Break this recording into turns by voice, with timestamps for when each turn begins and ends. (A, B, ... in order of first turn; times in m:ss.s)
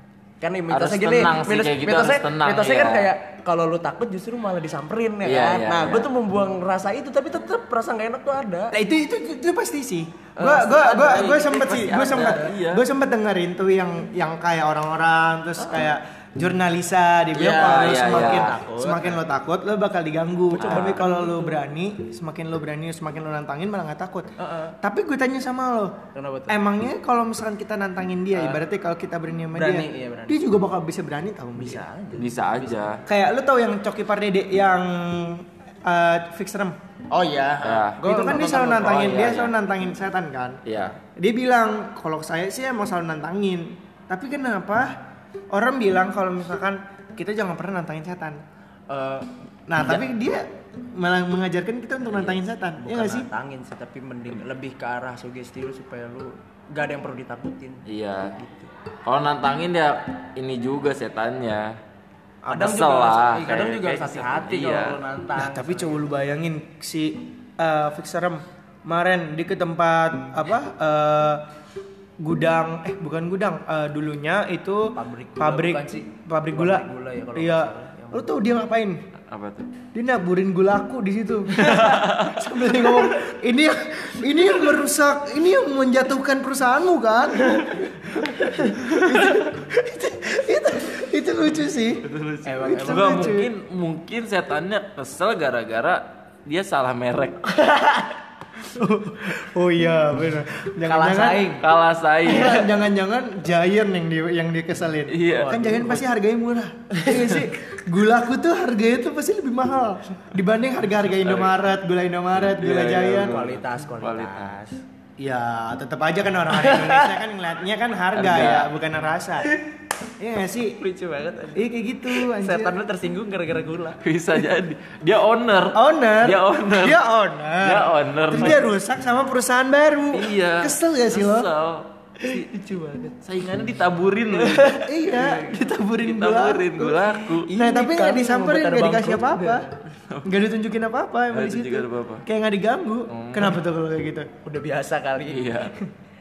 0:00.4-0:08.8 A
0:00.7-0:03.1 B
0:05.2-0:06.1 B
0:08.7-0:24.3 C
0:10.4-0:11.4 A
0:11.0-0:12.8 B
0:15.6-0:15.9 A
0:17.3-0:19.2 A
0:17.5-0:18.6 B
0:20.6-0:21.0 B
0:20.6-0:21.6 A
0:24.4-0:24.7 A
0:24.8-0:26.0 C
0:26.2-0:26.6 A
0:26.5-0:31.8 C
0:28.3-0:28.6 A
0:29.5-0:30.4 A
0:31.6-0:32.9 A
0:32.2-0:33.0 B
0:33.1-0:36.8 C
0:37.1-0:39.1 A
0:37.6-0:38.0 B
0:38.0-0:40.6 C
0:38.8-0:39.5 B
0:40.6-0:41.0 B
0:41.2-0:44.9 C
0:45.5-0:48.4 C
0:48.9-0:49.3 A
0:49.7-0:53.3 C
0:52.1-0:52.4 B
0:52.8-0:57.8 A
0:57.9-1:01.7 B
1:02.4-1:02.7 C
1:02.5-1:06.0 A
1:02.5-1:05.0 B
1:05.4-1:11.4 C
1:12.2-1:19.0 C
1:14.9-1:18.4 A
1:19.3-1:19.7 B
1:19.9-1:32.0 C
1:21.6-1:23.0 B
1:32.0-1:37.4 B
1:32.4-1:33.2 A
1:32.6-1:33.5 C
1:37.6-1:38.1 A
1:38.7-1:41.5 C
1:40.9-1:41.6 A
1:41.6-1:42.7 B
1:42.2-1:53.4 C
1:45.1-1:45.6 B
1:45.3-1:46.1 A
1:47.0-1:47.4 A
1:51.1-1:51.6 B
1:52.4-1:54.5 B
1:53.2-1:54.8 A
1:55.2-1:59.6 C
1:56.5-1:57.2 A
1:58.1-1:58.7 B
2:00.2-2:00.8 C
2:00.8-2:04.0 A
2:01.6-2:02.8 C
2:04.0-2:07.0 B
2:05.7-2:11.5 C
2:07.6-2:08.7 B
2:10.1-2:14.8 B
2:12.7-2:13.1 A
2:14.3-2:15.7 A
2:14.8-2:17.0 C
2:15.9-2:17.5 B
2:17.3-2:19.8 A
2:17.5-2:19.6 C
2:20.2-2:24.3 C
2:21.3-2:22.2 B
2:23.1-2:23.6 B
2:24.4-2:25.8 A
2:25.3-2:25.7 B